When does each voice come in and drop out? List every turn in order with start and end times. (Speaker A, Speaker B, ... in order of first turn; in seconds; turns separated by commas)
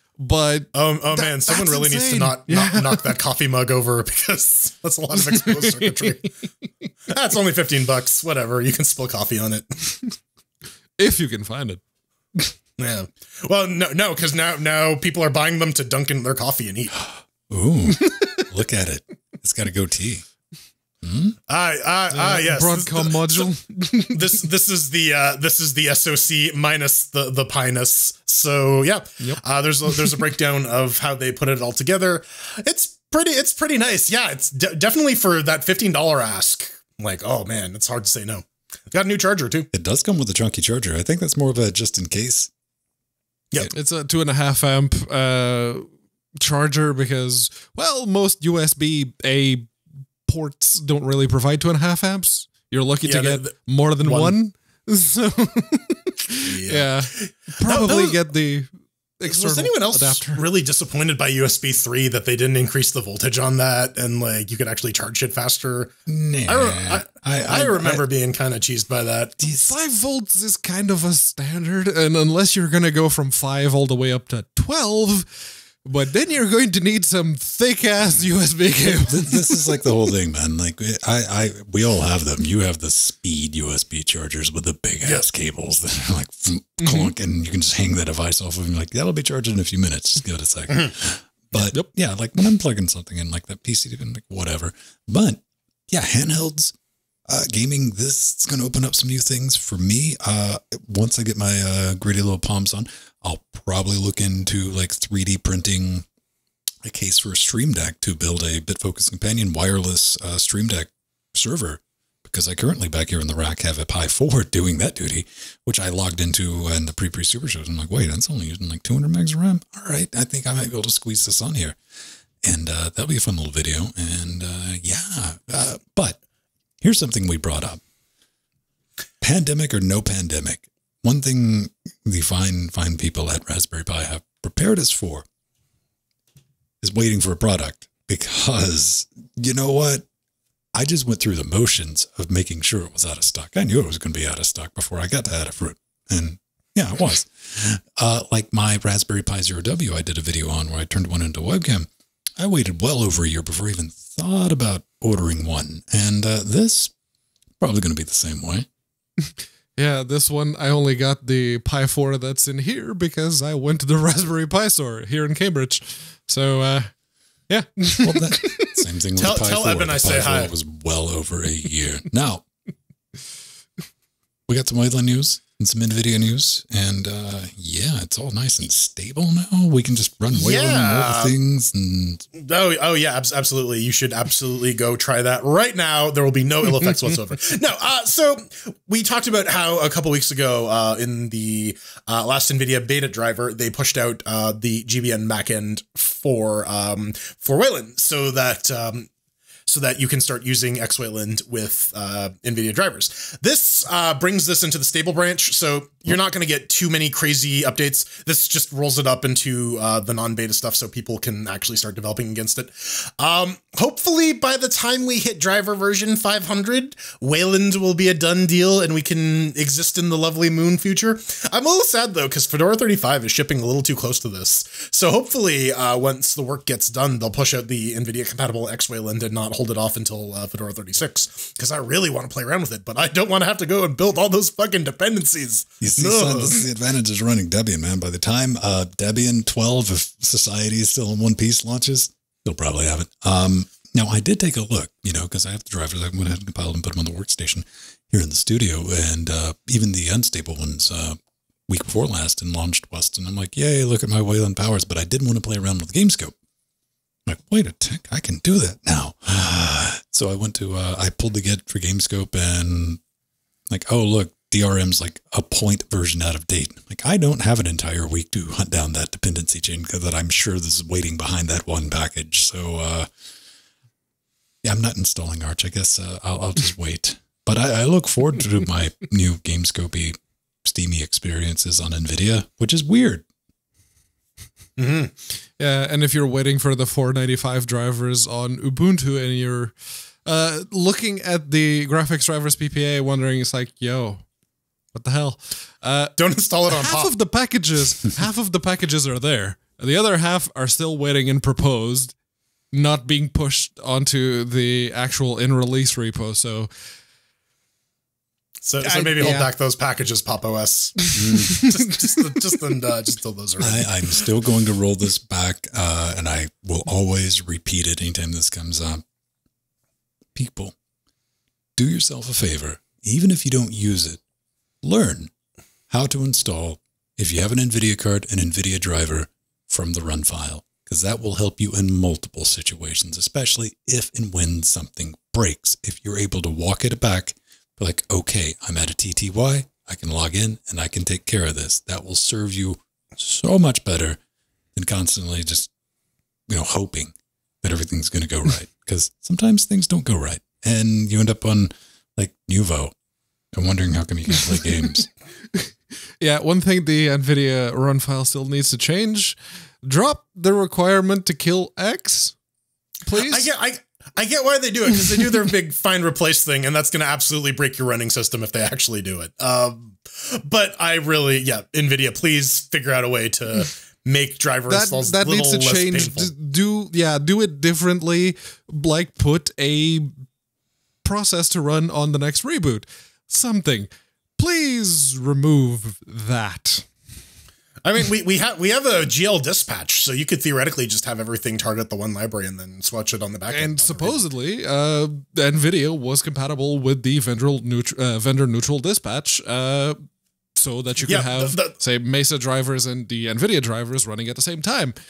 Speaker A: 0.2-3.2, Speaker B: 0.7-6.3, Speaker A: 5.2-6.2, Speaker B: 7.1-10.0, Speaker A: 11.0-11.8, Speaker B: 12.8-17.0, Speaker C: 17.5-20.3, Speaker A: 18.0-18.4, Speaker C: 21.0-21.4, Speaker B: 21.5-23.5, Speaker A: 22.1-24.4, Speaker B: 24.1-39.7, Speaker C: 39.7-42.5, Speaker A: 43.7-45.9, Speaker A: 46.4-49.7, Speaker A: 50.3-60.4, Speaker B: 53.0-54.4, Speaker B: 56.4-58.2, Speaker B: 59.3-65.9, Speaker C: 66.1-68.0, Speaker B: 66.5-69.4, Speaker C: 69.4-69.7, Speaker A: 69.4-79.7, Speaker C: 78.9-96.7, Speaker A: 86.8-87.1, Speaker C: 97.3-106.1, Speaker C: 106.8-121.8, Speaker C: 122.4-126.2, Speaker C: 126.8-127.8, Speaker C: 129.2-135.3, Speaker C: 136.8-140.1, Speaker C: 140.7-156.9, Speaker C: 157.6-158.7, Speaker A: 159.3-166.9, Speaker A: 167.5-168.8, Speaker C: 168.0-172.4, Speaker B: 169.2-170.5, Speaker C: 174.5-182.2, Speaker B: 180.3-181.4, Speaker B: 182.3-199.1, Speaker B: 199.7-236.6, Speaker C: 235.8-251.2, Speaker C: 251.7-256.4, Speaker C: 257.3-263.0, Speaker C: 263.7-273.1, Speaker C: 274.6-283.2, Speaker B: 284.8-285.1, Speaker A: 285.6-294.2, Speaker A: 294.9-302.1, Speaker B: 296.2-297.1, Speaker A: 302.7-306.7, Speaker B: 308.6-314.2, Speaker A: 308.8-309.5, Speaker C: 311.2-311.6, Speaker A: 311.2-311.7, Speaker C: 313.6-319.0, Speaker C: 320.3-320.8, Speaker C: 321.8-324.2, Speaker C: 324.8-325.3, Speaker C: 325.9-344.2, Speaker C: 344.7-345.7, Speaker C: 346.5-352.9, Speaker C: 353.5-355.1, Speaker A: 356.2-362.4, Speaker A: 363.1-363.5, Speaker B: 363.2-376.3, Speaker A: 374.7-380.1, Speaker A: 381.0-386.9, Speaker B: 387.9-394.2, Speaker A: 393.5-400.0, Speaker A: 400.6-405.0, Speaker B: 401.1-401.8